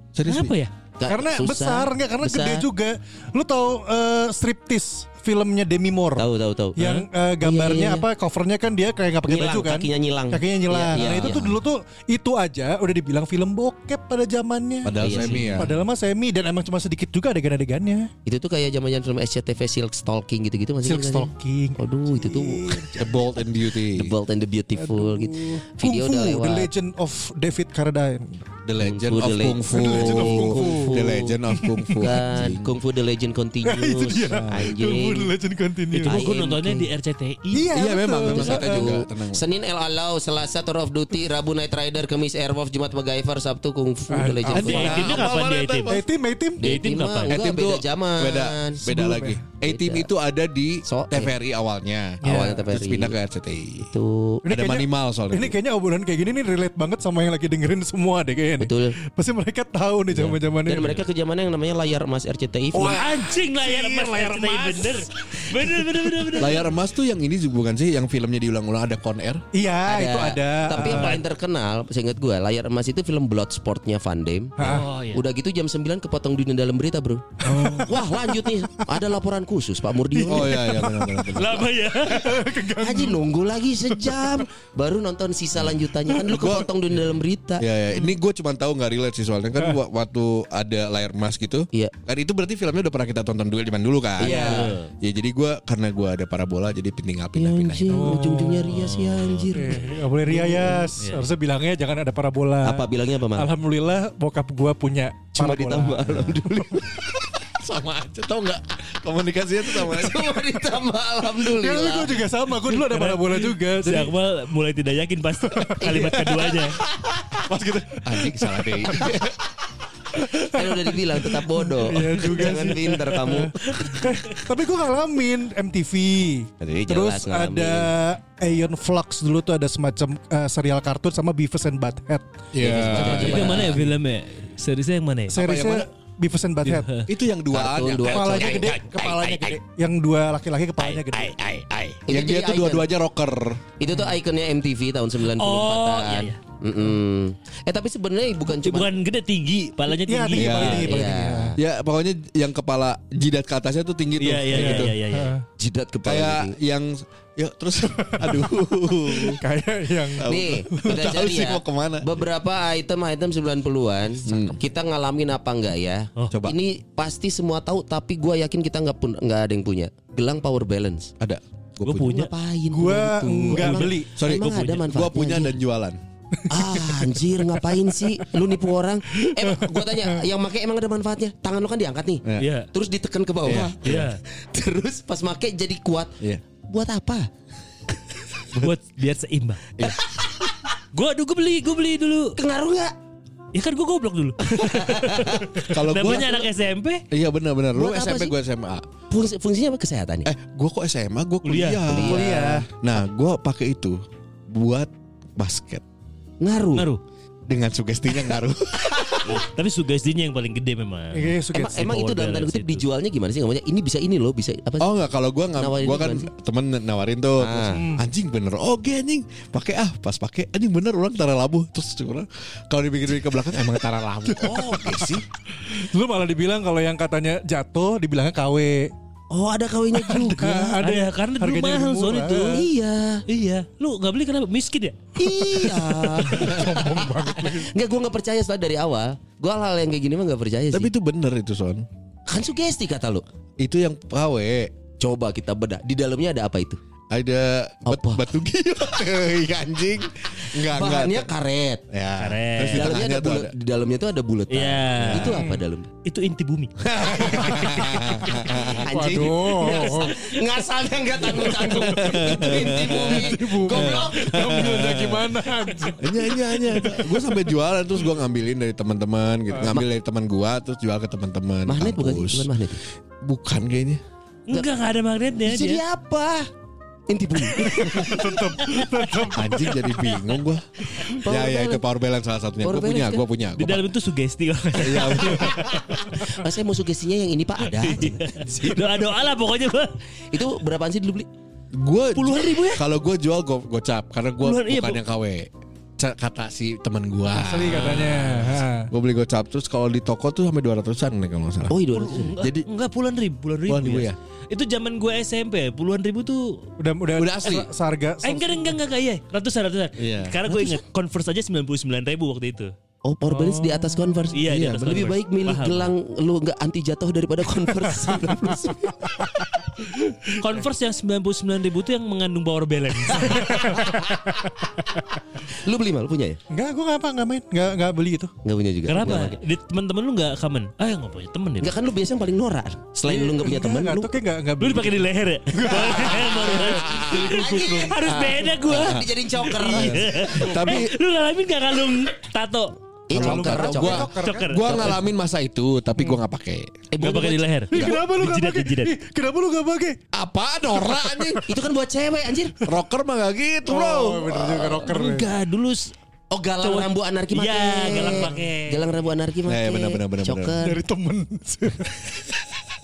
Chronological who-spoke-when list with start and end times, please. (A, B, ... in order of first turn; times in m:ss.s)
0:00.1-0:00.5 A
0:00.2-0:00.7 B
0:01.0-0:02.6 C
0:01.1-0:14.9 D
0:06.2-0:08.1 C
0:09.2-0:11.5 C
0:10.9-0:11.6 A
0:14.8-0:15.8 A
0:14.9-0:15.7 C
0:15.6-0:18.1 D
0:18.2-0:22.9 C
0:20.8-0:23.2 D
0:23.0-0:24.1 A
0:23.9-0:26.7 C
0:24.8-0:28.4 D
0:28.6-0:32.7 A
0:28.8-0:31.4 C
0:29.7-0:32.4 D
0:32.0-0:35.3 C
0:33.6-0:36.2 D
0:34.3-0:34.6 A
0:35.9-0:37.8 B
0:36.0-0:36.9 C
0:37.5-0:39.0 D
0:37.7-0:39.4 A
0:38.2-0:45.2 C
0:44.1-0:45.0 D
0:44.5-0:46.0 A
0:44.6-0:46.0 B
0:45.9-0:46.6 D
0:46.6-0:50.1 C
0:46.6-0:47.4 B
0:47.3-0:53.9 A
0:49.0-0:49.3 D
0:50.8-0:51.3 C
0:52.2-0:52.6 D
0:52.2-0:53.2 C
0:53.8-0:54.4 C
0:54.4-1:01.0 D
0:54.5-0:55.6 A
0:58.6-0:59.0 C
1:00.1-1:03.0 C
1:02.7-1:06.4 D
1:02.8-1:06.7 B
1:06.4-1:09.4 A
1:09.5-1:11.2 D
1:09.8-1:20.8 C
1:10.8-1:11.2 B
1:14.6-1:14.9 D
1:14.6-1:15.2 B
1:17.4-1:19.0 D
1:17.5-1:17.8 A
1:20.2-1:21.3 D
1:20.2-1:21.7 A
1:21.3-1:22.4 B
1:22.0-1:23.2 D
1:22.8-1:27.6 C
1:23.9-1:24.4 D
1:26.2-1:26.7 A
1:27.6-1:37.9 A
1:34.2-1:34.8 C
1:34.2-1:34.9 B
1:34.3-1:34.6 D
1:37.3-1:40.8 C
1:37.9-1:38.8 D
1:38.7-1:40.0 B
1:39.5-1:46.2 D
1:41.0-1:41.3 B
1:42.6-1:43.5 C
1:45.3-1:47.1 C
1:47.6-1:50.3 A
1:49.7-1:52.2 C
1:51.4-1:54.1 D
1:52.8-1:56.8 B
1:55.5-1:56.0 D
1:55.8-1:57.4 C
1:57.4-1:59.5 A
1:58.9-1:59.2 C
2:00.2-2:04.0 C
2:00.4-2:12.3 D
2:03.6-2:04.3 B
2:06.6-2:07.9 C
2:12.5-2:13.8 A
2:12.6-2:13.8 C
2:12.9-2:13.3 D
2:13.0-2:15.4 B
2:15.3-2:17.0 D
2:15.4-2:15.8 A
2:16.7-2:19.6 A
2:17.5-2:18.8 C
2:18.0-2:21.3 D
2:20.8-2:23.6 A
2:22.1-2:22.9 C
2:23.8-2:28.9 C
2:25.2-2:26.4 B
2:28.5-2:31.0 B
2:29.9-2:31.6 D
2:30.4-2:31.0 A
2:30.6-2:31.6 C
2:31.6-2:35.0 A
2:34.2-2:35.4 B
2:34.5-2:35.4 D
2:35.6-2:36.6 C
2:36.0-2:39.4 A
2:38.2-2:38.4 D
2:39.1-2:41.0 D
2:40.2-2:42.0 A
2:40.2-2:51.1 C
2:44.2-2:44.6 A
2:51.2-2:52.2 A
2:51.8-2:52.3 B
2:52.1-2:55.6 C
2:52.7-2:54.1 D
2:53.5-2:54.8 B
2:54.2-2:56.0 A
2:56.4-2:57.6 D
2:56.5-3:07.3 C
2:59.2-3:00.2 D
3:02.4-3:02.7 B
3:03.4-3:04.1 A
3:03.8-3:04.2 B
3:08.5-3:09.6 B
3:09.8-3:10.2 C
3:10.9-3:12.4 B
3:12.4-3:12.9 C
3:13.5-3:17.0 B
3:14.4-3:16.1 C
3:15.6-3:16.5 A
3:17.1-3:18.8 A
3:17.7-3:18.4 C
3:19.1-3:20.3 C
3:20.2-3:25.8 A
3:21.4-3:22.0 B
3:21.9-3:22.5 C
3:22.0-3:22.7 D
3:26.4-3:26.9 C
3:26.7-3:27.0 B
3:27.5-3:29.4 A
3:29.2-3:32.8 B
3:31.1-3:31.8 D
3:31.5-3:34.9 C
3:34.8-3:45.2 A
3:35.5-3:36.3 C
3:37.4-3:37.8 C
3:37.7-3:38.0 D
3:44.4-3:44.8 D
3:44.4-3:45.2 C
3:45.6-3:48.9 D
3:49.3-3:50.8 C
3:49.9-3:52.6 D
3:50.8-3:52.6 B
3:52.5-3:53.2 C
3:53.3-3:55.1 B
3:55.2-4:00.9 C
3:55.3-3:57.7 D
4:00.7-4:01.8 A
4:02.3-4:03.2 C
4:03.6-4:04.7 A
4:05.0-4:06.8 C
4:07.1-4:11.3 A
4:07.8-4:08.2 C
4:10.7-4:11.8 C
4:11.9-4:13.5 A
4:12.2-4:13.1 B
4:12.6-4:15.9 C
4:14.5-4:16.7 B
4:15.0-4:15.4 A
4:16.8-4:19.6 A
4:17.2-4:18.1 D
4:18.6-4:20.3 D
4:18.8-4:24.5 C
4:21.2-4:26.8 D
4:22.0-4:25.4 A
4:26.0-4:32.5 A
4:31.6-4:32.8 C
4:33.2-4:34.0 A
4:34.5-4:35.8 B
4:35.4-4:36.5 C
4:37.1-4:38.6 C
4:37.6-4:39.8 D
4:39.3-4:43.8 A
4:41.0-4:41.8 C
4:42.6-4:43.2 C
4:43.6-4:46.2 B
4:44.7-4:45.8 A
4:45.4-4:48.9 C
4:47.7-4:50.0 B
4:50.3-4:51.3 C
4:51.7-5:01.8 A
4:52.1-4:52.8 B
4:54.4-4:55.0 B
4:57.3-4:58.9 D
4:57.7-4:58.2 B
5:01.7-5:02.4 C
5:01.9-5:06.6 B
5:02.4-5:02.7 A
5:03.7-5:04.2 A
5:06.8-5:08.7 D
5:07.2-5:07.7 A
5:08.2-5:12.7 B
5:10.0-5:10.8 A
5:13.0-5:19.3 C
5:13.3-5:14.2 D
5:14.3-5:15.9 B
5:14.4-5:15.1 A
5:20.2-5:24.0 B
5:23.4-5:24.4 D
5:25.6-5:26.4 C
5:26.5-5:28.3 D
5:28.4-5:29.4 C
5:28.9-5:31.7 B
5:31.6-5:34.1 C
5:33.0-5:38.0 D
5:34.6-5:42.8 B
5:36.7-5:40.5 C
5:36.8-5:37.3 A
5:39.6-5:40.9 A
5:43.1-5:44.1 C
5:43.1-5:46.7 A
5:43.1-5:44.8 D
5:44.1-5:45.0 B
5:44.7-5:45.0 C
5:46.9-5:48.0 C
5:47.0-5:48.9 B
5:47.7-5:50.0 D
5:50.1-5:51.4 A
5:50.8-5:51.4 D
5:51.4-5:52.6 C
5:52.6-5:54.4 A
5:53.7-5:55.3 D
5:54.4-5:54.9 C
5:54.6-5:55.9 B
5:56.3-6:00.8 C
5:56.6-5:59.0 B
5:59.4-6:00.6 A
6:00.6-6:02.4 D